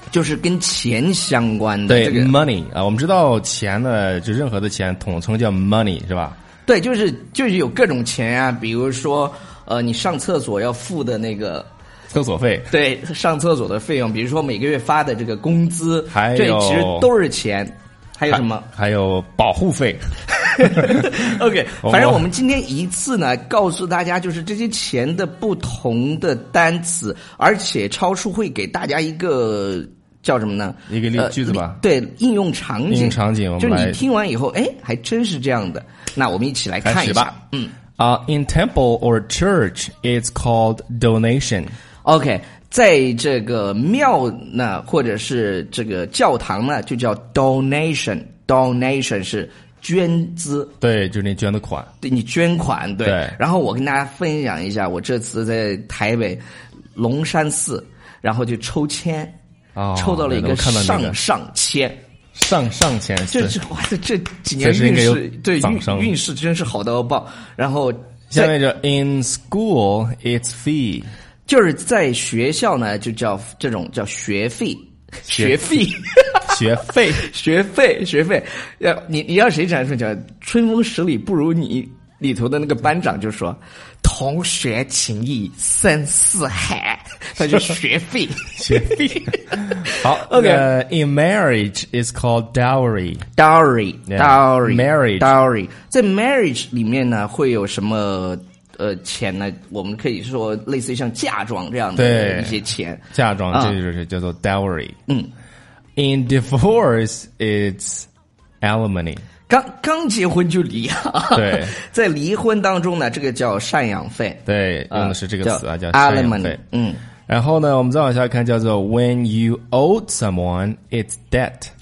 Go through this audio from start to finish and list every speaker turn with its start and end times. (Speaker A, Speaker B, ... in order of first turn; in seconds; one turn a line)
Speaker A: 0.1-2.4
Speaker B: 1.9-6.4
Speaker A: 6.7-11.7
Speaker B: 12.1-12.7
Speaker A: 12.7-18.7
Speaker B: 16.1-17.1
Speaker B: 18.3-21.2
Speaker A: 20.4-37.8
Speaker B: 21.8-22.2
Speaker B: 30.9-31.8
Speaker B: 32.9-34.0
Speaker B: 36.8-37.3
Speaker B: 38.0-41.7
Speaker A: 42.0-50.7
Speaker B: 50.8-51.9
Speaker A: 52.0-56.4
Speaker B: 53.0-53.4
Speaker A: 57.0-59.4
Speaker B: 59.8-61.2
Speaker A: 59.9-62.0
Speaker B: 62.4-63.6
Speaker A: 63.3-68.5
Speaker B: 64.6-66.1
Speaker B: 68.3-71.1
Speaker A: 71.5-76.6
Speaker B: 75.3-75.9
Speaker B: 76.5-77.2
Speaker A: 77.2-90.7
Speaker B: 88.6-93.2
Speaker A: 93.4-103.8
Speaker B: 94.1-95.4
Speaker B: 102.0-102.6
Speaker B: 103.1-105.0
Speaker B: 106.0-108.1
Speaker B: 108.6-109.2
Speaker A: 109.5-117.0
Speaker B: 111.3-111.8
Speaker B: 114.5-116.6
Speaker B: 117.3-121.7